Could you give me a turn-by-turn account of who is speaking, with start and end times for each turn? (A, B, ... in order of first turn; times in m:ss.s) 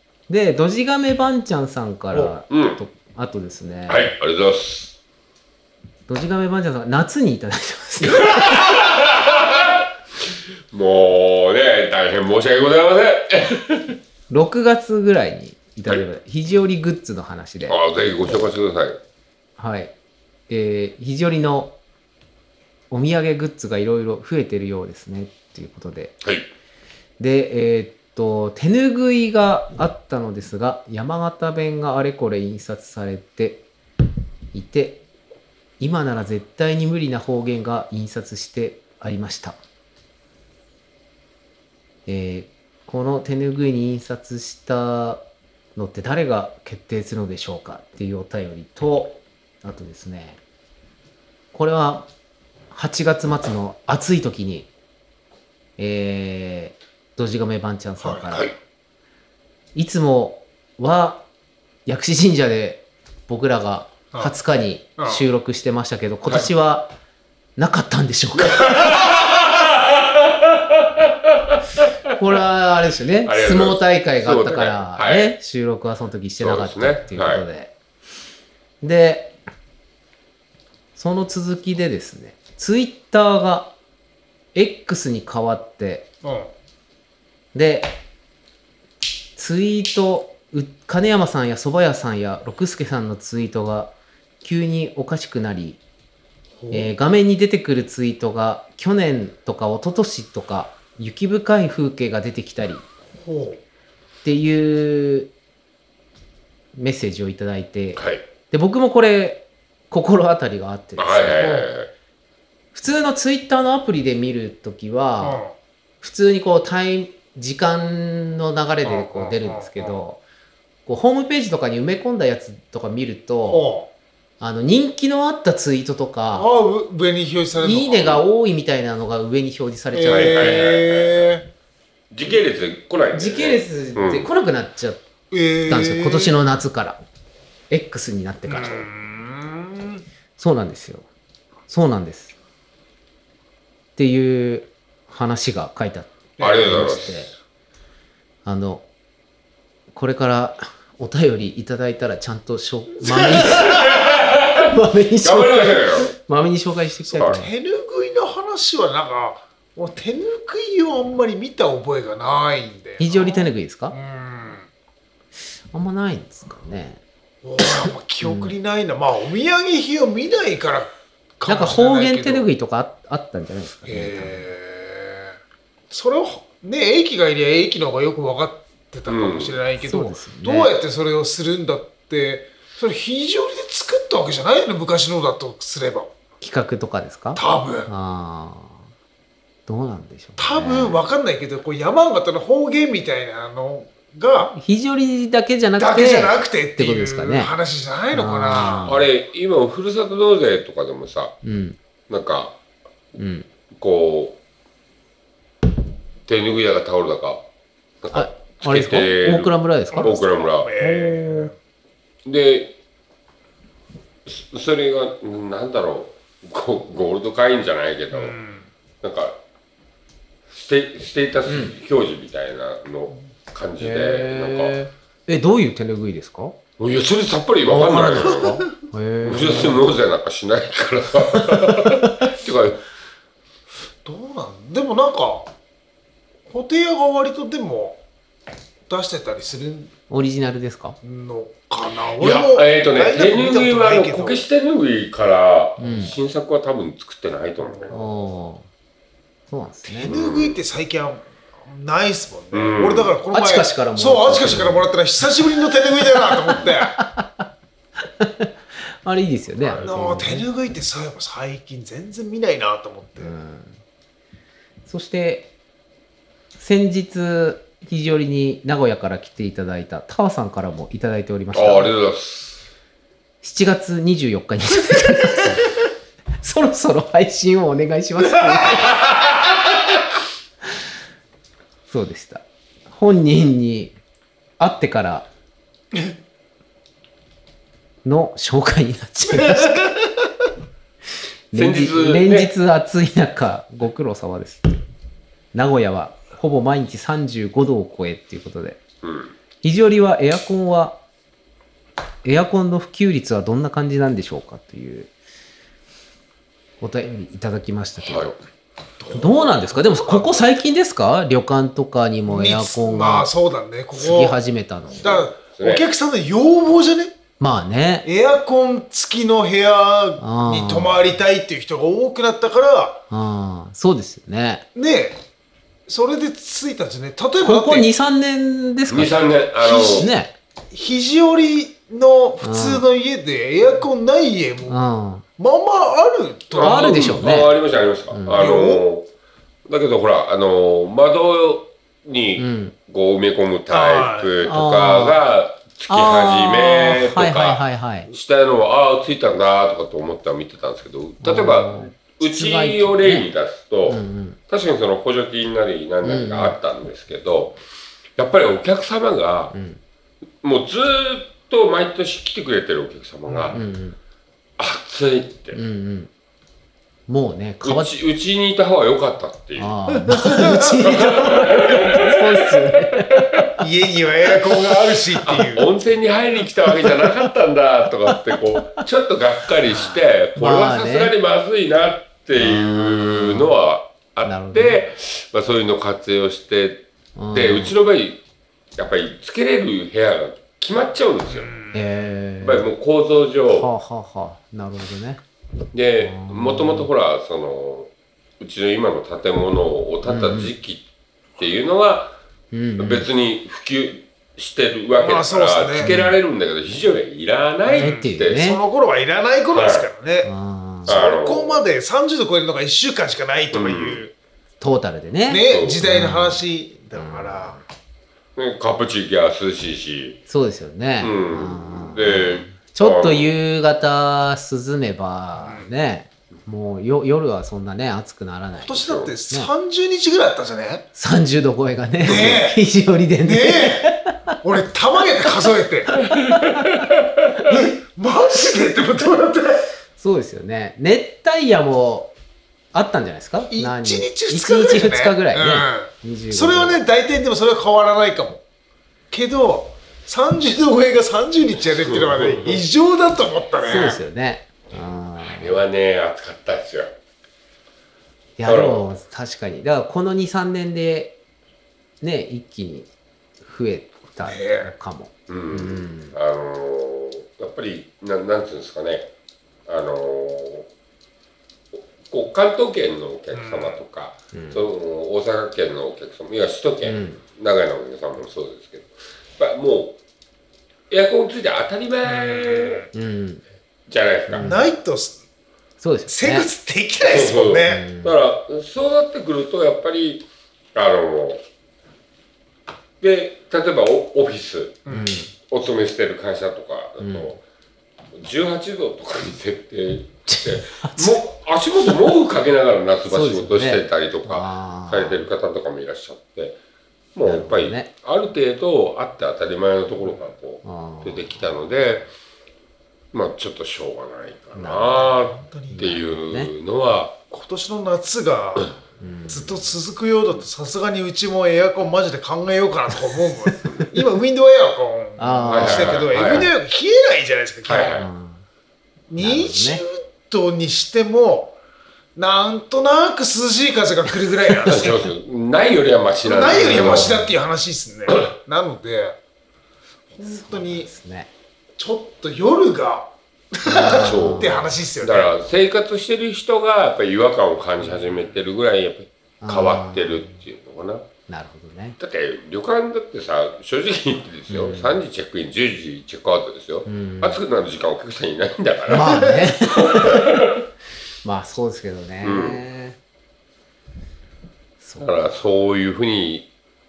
0:00.3-0:04.1 A
0:02.5-0:02.8 B
0:03.9-0:05.0 B
0:06.1-0:08.9 A
0:08.2-0:14.0 B
0:14.3-0:18.4 A
0:17.7-0:19.0 B
0:19.6-0:19.9 A
0:20.5-0:21.8 A
0:22.9-0:26.2 A
0:26.2-0:26.5 B
0:27.2-0:33.7 A
0:34.5-0:35.0 A
0:35.8-0:39.6 A
0:42.1-0:45.2 A
0:45.8-0:50.4 A
0:51.5-0:52.1 A
0:52.7-0:54.7 A
0:55.8-0:58.5 A
0:58.0-0:58.3 C
0:59.8-1:01.2 A
1:01.9-1:06.9 A
1:05.0-1:05.2 C
1:07.6-1:09.1 A
1:08.4-1:11.9 B
1:12.2-1:17.7 A
1:13.2-1:15.4 B
1:16.4-1:17.4 B
1:18.8-1:19.4 A
1:21.0-1:23.7 A
1:24.5-1:26.1 A
1:26.2-1:26.5 C
1:27.5-1:27.9 A
1:29.4-1:35.8 A
1:36.6-1:36.9 C
1:36.7-1:42.9 A
1:43.2-1:43.6 C
1:44.2-1:45.3 A
1:46.8-1:51.7 A
1:48.0-1:48.2 B
1:51.0-1:51.9 B
1:52.7-1:55.4 A
1:55.2-1:55.5 C
1:56.0-2:00.2 A
1:58.8-2:00.0 C
2:00.9-2:03.6 A
2:03.5-2:03.9 C
2:04.4-2:06.5 A
2:06.3-2:08.2 C
2:07.6-2:10.7 A
2:09.9-2:11.5 C
2:10.1-2:11.2 B
2:12.1-2:14.3 B
2:13.1-2:15.0 A
2:15.3-2:16.4 C
2:15.7-2:17.0 A
2:17.7-2:18.9 A
2:18.5-2:20.0 C
2:20.4-2:21.1 A
2:21.7-2:22.4 A
2:24.0-2:27.3 A
2:26.4-2:26.9 C
2:26.4-2:27.3 B
2:28.4-2:28.9 A
2:29.9-2:37.5 A
2:33.1-2:33.6 C
2:33.6-2:34.7 B
2:35.2-2:36.1 B
2:37.1-2:37.4 B
2:37.3-2:44.7 C
2:43.0-2:44.0 A
2:45.7-2:47.0 A
2:47.4-2:52.5 C
2:47.6-2:48.6 A
2:51.5-2:54.5 A
2:53.9-2:55.4 C
2:55.9-3:06.1 C
2:59.1-2:59.6 B
2:59.8-3:00.7 A
3:06.4-3:08.8 A
3:07.4-3:07.9 C
3:09.7-3:11.0 A
3:10.4-3:14.5 C
3:14.5-3:17.5 A
3:15.8-3:18.9 C
3:18.1-3:19.1 A
3:18.8-3:21.4 B
3:21.4-3:21.8 A
3:22.1-3:22.6 B
3:23.2-3:23.5 A
3:23.7-3:24.4 B
3:26.3-3:27.4 B
3:28.0-3:30.7 B
3:28.1-3:30.2 A
3:30.0-3:31.5 C
3:30.8-3:31.5 A
3:32.2-3:32.8 B
3:34.3-3:38.4 B
3:38.1-3:38.7 C
3:39.0-3:39.4 B
3:40.5-3:44.8 B
3:41.5-3:41.7 A
3:43.8-3:46.6 A
3:46.8-3:48.6 B
3:47.7-3:49.8 A
3:48.2-3:48.7 C
3:49.2-3:52.8 B
3:51.7-3:52.3 A
3:54.0-3:55.5 C
3:56.5-3:58.0 C
3:58.9-3:59.9 C
4:00.1-4:01.0 A
4:01.0-4:04.4 C
4:02.2-4:08.0 B
4:05.8-4:06.1 A
4:07.6-4:08.2 C
4:07.9-4:08.7 A
4:09.5-4:10.2 A
4:09.9-4:17.0 C
4:10.1-4:10.6 B
4:12.5-4:13.2 B
4:13.3-4:14.9 A
4:15.4-4:17.5 A
4:18.0-4:20.5 A
4:19.6-4:23.3 C
4:23.2-4:23.8 A
4:24.9-4:25.5 A
4:26.6-4:31.9 A
4:31.5-4:32.6 B
4:33.4-4:35.8 A
4:36.4-4:39.1 A
4:41.9-4:44.0 A
4:44.6-4:45.3 A
4:48.0-4:49.9 A
4:49.4-4:50.0 C
4:51.5-4:54.8 A
4:51.5-4:52.5 B
4:55.5-4:58.8 A
4:59.0-4:59.3 B
4:59.6-5:01.0 A
5:02.2-5:05.1 A
5:06.8-5:08.4 A
5:08.0-5:08.4 B
5:09.0-5:10.5 C
5:09.1-5:13.3 A
5:12.3-5:14.4 C
5:13.9-5:15.3 A
5:15.0-5:17.1 C
5:15.0-5:15.9 B
5:17.4-5:18.1 A
5:18.0-5:23.0 C
5:20.2-5:21.0 A
5:23.1-5:24.6 A
5:24.8-5:25.2 C
5:25.9-5:27.9 C
5:27.4-5:29.1 A
5:28.9-5:30.1 B
5:29.6-5:30.1 C
5:29.8-5:30.3 A
5:30.7-5:34.8 C
5:32.4-5:32.8 A
5:34.7-5:35.2 A
5:35.4-5:37.1 C
5:36.5-5:39.1 B
5:36.6-5:37.6 A
5:38.1-5:38.5 A
5:38.3-5:38.8 C
5:39.7-5:57.6 B
5:42.4-5:42.8 A
5:43.7-5:44.4 C
5:44.4-5:45.2 A
5:45.9-5:48.1 A
5:51.2-5:53.3 A
5:53.9-5:54.4 A
5:56.0-5:56.6 A
5:58.2-5:59.5 B
5:59.5-5:59.8 A
6:00.4-6:03.6 B
6:03.3-6:03.6 C
6:03.5-6:04.0 A
6:04.6-6:05.6 B
6:05.5-6:06.1 A
6:07.1-6:07.9 A
6:07.6-6:09.8 B
6:09.6-6:13.6 A
6:10.0-6:10.8 C
6:10.7-6:13.5 B
6:13.6-6:15.7 C
6:14.3-6:28.2 B
6:16.7-6:17.3 A
6:18.1-6:18.8 A
6:20.4-6:21.1 A
6:22.4-6:23.5 A
6:24.2-6:24.8 A
6:27.2-6:27.7 A
6:28.8-6:31.6 B
6:31.3-6:31.8 C
6:31.7-6:32.7 A
6:32.4-6:33.7 B
6:33.5-6:35.2 A
6:35.7-6:40.8 B
6:36.0-6:36.9 A
6:40.1-6:40.5 A
6:41.4-6:42.2 B
6:42.5-6:43.1 A
6:42.8-6:48.5 B
6:45.0-6:45.9 C
6:45.8-6:46.2 A
6:47.7-6:50.3 C
6:47.7-6:48.6 A
6:49.5-6:49.9 B
6:50.2-6:51.0 A
6:50.8-6:54.1 C
6:50.9-6:51.6 B
6:53.5-6:54.0 B
6:54.6-6:56.4 A
6:55.3-6:57.6 C
6:55.5-6:55.8 B
6:56.9-6:57.6 A
6:58.4-7:00.2 B
7:00.3-7:09.5 A
7:01.0-7:03.3 B
7:05.4-7:05.7 C
7:08.7-7:10.8 C
7:08.8-7:09.1 B
7:11.0-7:14.4 A
7:12.0-7:12.6 C
7:12.1-7:12.4 B
7:13.2-7:16.0 C
7:15.9-7:16.9 A
7:16.0-7:17.2 B
7:17.4-7:19.7 C
7:20.0-7:22.1 A
7:22.7-7:26.8 A
7:23.5-7:28.4 C
7:29.1-7:34.0 C
7:31.8-7:32.6 B
7:33.6-7:35.6 A
7:35.2-7:36.9 B
7:38.4-7:41.2 A
7:38.5-7:38.8 B
7:42.0-7:42.9 A
7:43.4-7:46.2 A
7:44.2-7:44.7 C
7:45.3-7:49.1 B
7:49.7-7:50.7 B
7:51.7-8:00.0 B
7:53.3-7:53.8 C
7:54.3-7:54.6 A
7:56.8-7:57.2 A
8:00.9-8:02.9 B
8:02.0-8:02.9 C
8:02.9-8:03.4 A
8:03.9-8:04.5 B
8:04.3-8:04.7 A
8:04.4-8:05.2 C
8:05.8-8:06.5 A
8:06.1-8:07.8 C
8:07.0-8:11.4 B
8:07.6-8:08.2 A
8:13.0-8:14.8 B
8:14.9-8:15.2 C
8:14.9-8:15.3 A
8:15.5-8:17.4 B
8:17.0-8:17.4 A
8:18.1-8:26.6 B
8:20.3-8:21.2 A
8:23.1-8:25.3 A
8:27.2-8:32.1 B
8:27.2-8:27.9 A
8:30.6-8:31.5 A
8:33.1-8:37.2 B
8:34.6-8:35.2 A
8:35.1-8:35.8 C
8:35.7-8:36.5 A
8:37.3-8:38.8 C
8:39.0-8:39.7 A
8:39.3-8:48.0 C
8:45.2-8:46.5 A
8:45.5-8:46.5 B
8:47.7-8:48.1 B
8:48.0-8:48.4 A
8:49.1-8:51.6 C
8:49.2-8:49.8 A
8:52.2-8:55.1 C
8:54.7-8:57.2 B
8:56.2-8:59.2 C
8:56.5-8:57.3 A
9:00.1-9:00.9 C
9:00.2-9:01.3 A
9:01.8-9:05.3 C
9:03.6-9:04.7 A
9:03.8-9:11.1 B
9:09.4-9:10.4 A
9:11.3-9:12.0 A
9:12.0-9:20.6 B
9:14.5-9:15.0 A
9:16.9-9:17.4 A
9:18.9-9:20.4 A
9:21.2-9:23.0 A
9:22.2-9:22.6 B
9:24.8-9:25.2 A
9:25.0-9:26.5 B